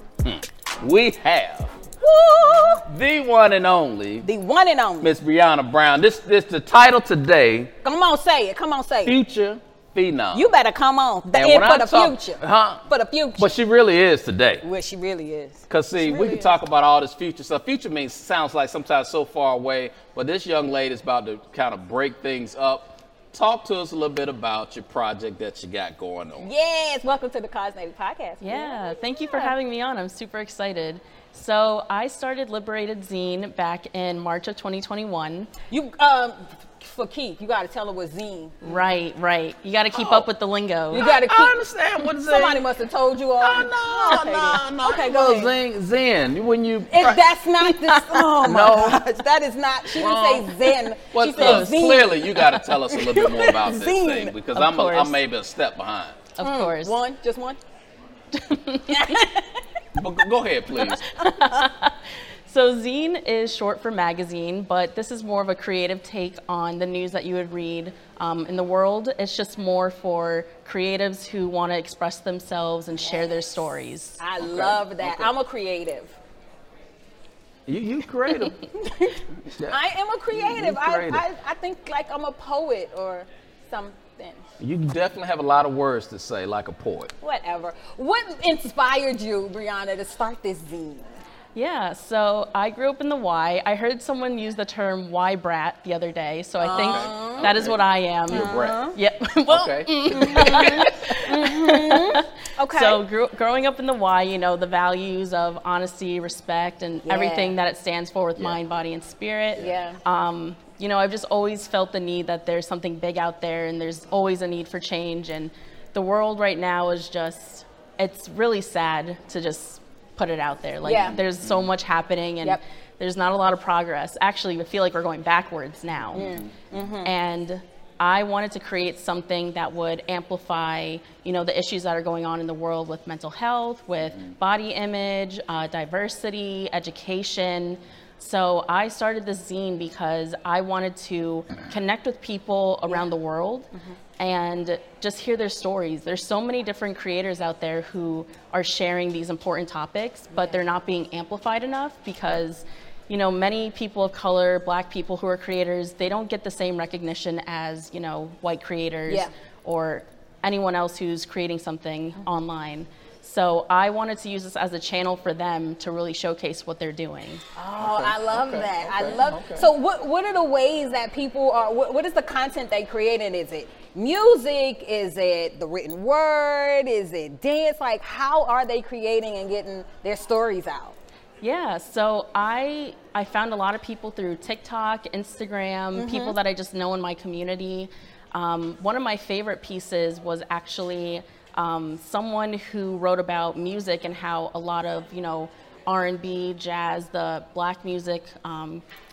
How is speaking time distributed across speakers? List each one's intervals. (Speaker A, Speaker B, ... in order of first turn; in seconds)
Speaker A: 0.2-1.8, 2.8-4.3, 5.0-7.7, 9.0-10.5, 11.3-12.8, 13.4-14.6, 15.7-26.5, 41.0-42.6, 43.4-47.2, 48.4-49.0, 49.9-56.3, 60.0-61.0, 74.4-75.3, 77.7-78.7, 79.5-79.8, 80.3-81.2, 84.6-87.1, 96.7-98.8, 99.5-100.8, 121.0-121.7, 126.1-126.8, 134.0-134.3, 167.8-169.7
Speaker B: 2.0-2.8, 4.2-5.1, 7.8-9.2, 10.3-13.5, 14.6-16.5, 26.4-29.5, 35.7-38.7, 40.0-40.2, 40.9-41.5, 42.2-45.6, 46.9-54.4, 56.4-57.6, 58.9-59.6, 60.9-61.6, 73.0-73.7, 74.2-76.2, 78.8-84.4, 87.2-91.1, 96.6-97.5, 98.3-99.0, 100.1-103.0, 107.1-107.5, 109.6-110.0, 120.8-121.2, 126.1-127.1, 150.3-150.6, 167.6-180.9, 186.0-186.4
Speaker C: 28.4-35.5, 38.6-41.0, 51.4-51.8, 54.5-55.2, 56.3-57.0, 58.3-59.1, 61.2-74.2, 91.5-126.2, 127.0-143.7, 144.2-167.4, 181.4-198.8